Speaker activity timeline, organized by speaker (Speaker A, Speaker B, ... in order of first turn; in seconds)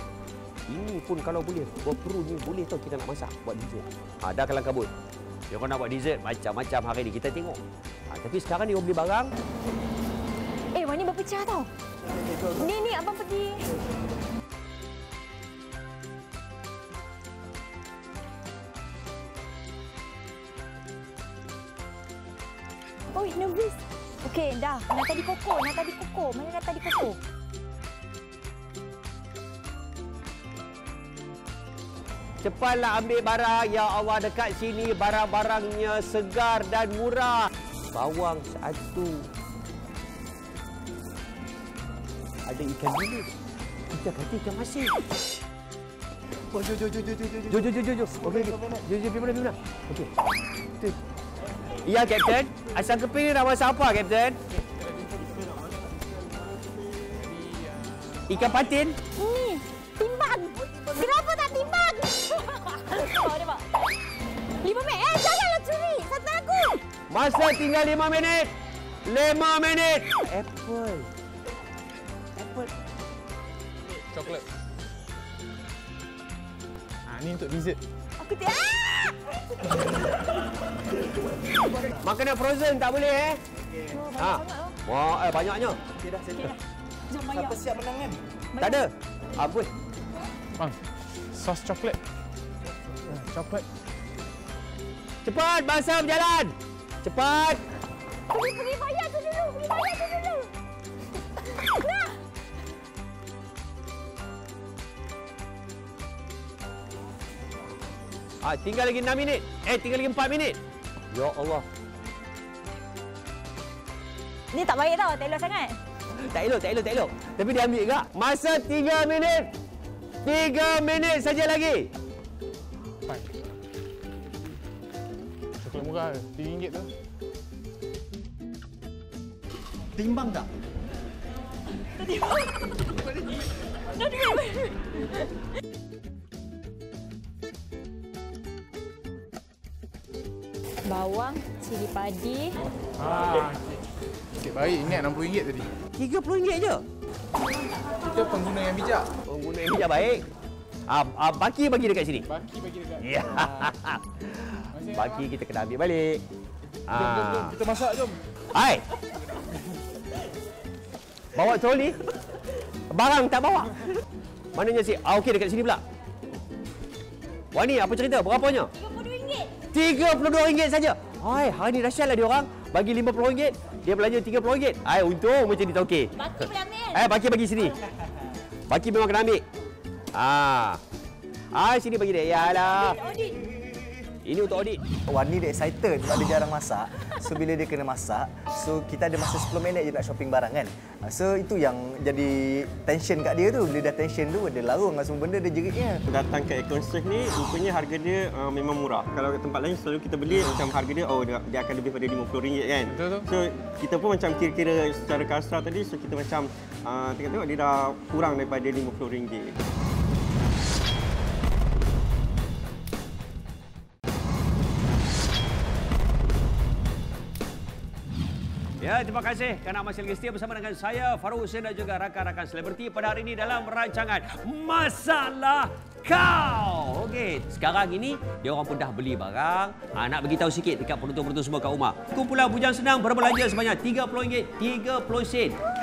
Speaker A: 0.7-4.9, 5.5-9.3, 32.4-39.2, 42.5-43.3, 43.9-44.9, 47.5-50.1, 51.8-54.4, 58.3-59.0, 67.1-68.5, 69.0-71.1, 72.3-72.7, 82.0-83.4, 84.2-85.8, 88.6-89.7, 95.2-97.6, 108.4-110.6, 111.1-111.6, 116.2-119.5, 120.2-121.9, 129.9-130.4, 145.9-146.8, 149.2-150.2, 150.9-152.3, 153.0-156.2, 156.9-157.6, 158.5-158.8, 161.3-162.0, 162.9-164.0, 164.5-165.8, 167.5-168.7, 169.7-177.8, 178.7-179.4, 180.1-180.8, 181.5-183.0, 184.2-184.8, 218.8-235.6
Speaker B: 10.7-11.7, 12.5-13.7, 23.1-27.2, 59.1-63.9, 64.6-66.8, 78.2-79.2, 83.9-84.8, 87.1-87.6, 88.5-88.8, 98.3-100.5, 101.5-102.2, 114.5-115.8, 132.0-132.5, 133.9-135.2, 140.8-142.6, 168.8-169.6, 176.2-177.1, 182.4-183.4
Speaker C: 12.1-12.6, 46.6-47.3, 83.5-84.0, 86.0-86.6, 87.3-88.2, 185.1-196.0
Speaker D: 54.8-55.4, 57.1-58.5, 74.1-74.4, 77.1-77.8, 91.3-92.0, 93.0-93.6, 125.6-126.9, 143.0-143.7, 144.4-145.7, 148.0-149.1, 152.3-153.7, 154.7-155.3, 156.9-158.2, 200.3-200.6, 202.9-203.3
Speaker E: 55.2-57.2, 196.1-209.6